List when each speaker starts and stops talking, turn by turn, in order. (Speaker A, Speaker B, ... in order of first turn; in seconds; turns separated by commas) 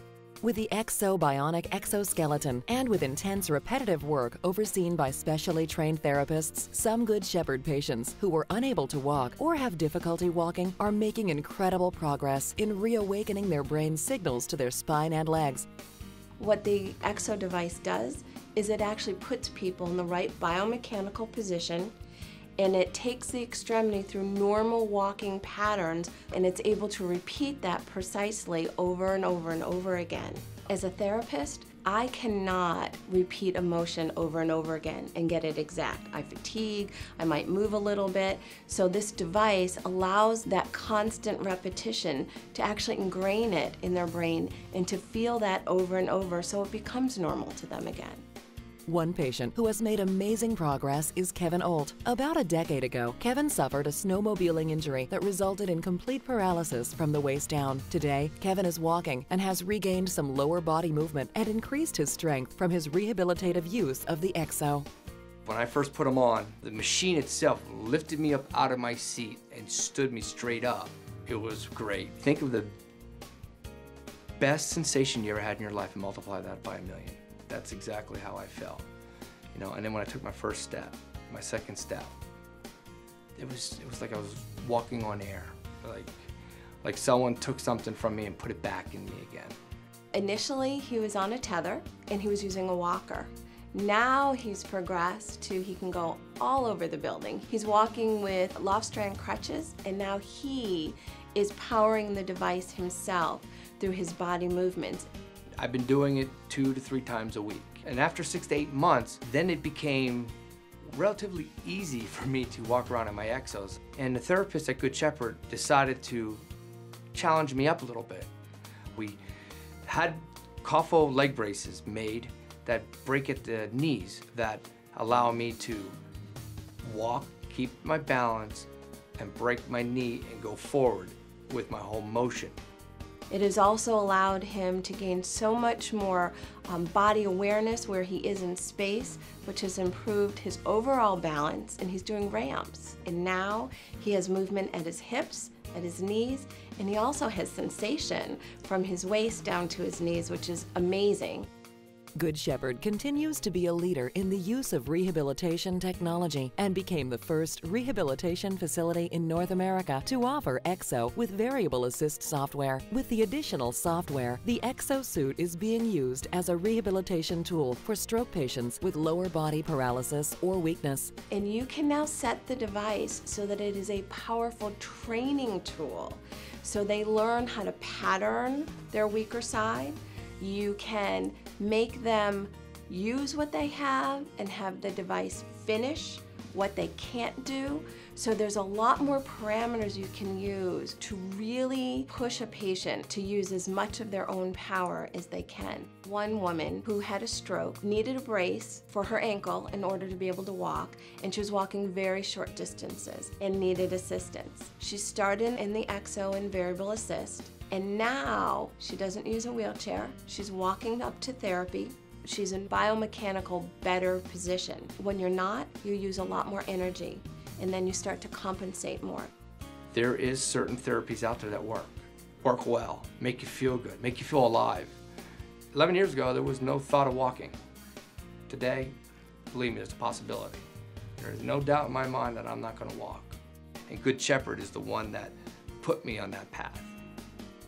Speaker A: 0.4-15.7, Speaker B: 16.4-21.9, Speaker B: 22.6-48.2, Speaker A: 48.9-64.9, Speaker C: 65.5-72.7, Speaker C: 74.4-78.8, Speaker C: 79.5-82.1, Speaker C: 83.4-86.1, Speaker C: 86.8-89.5, Speaker B: 90.1-105.1, Speaker C: 105.6-110.3, Speaker C: 110.9-116.4, Speaker C: 117.1-118.3, Speaker C: 119.8-126.0, Speaker C: 126.8-132.6, Speaker B: 133.3-151.5, Speaker A: 152.2-171.1, Speaker B: 171.3-219.3, Speaker C: 219.9-225.0, Speaker C: 225.7-227.6, Speaker C: 228.5-228.9, Speaker C: 229.5-230.6, Speaker C: 231.2-233.4, Speaker C: 233.9-236.9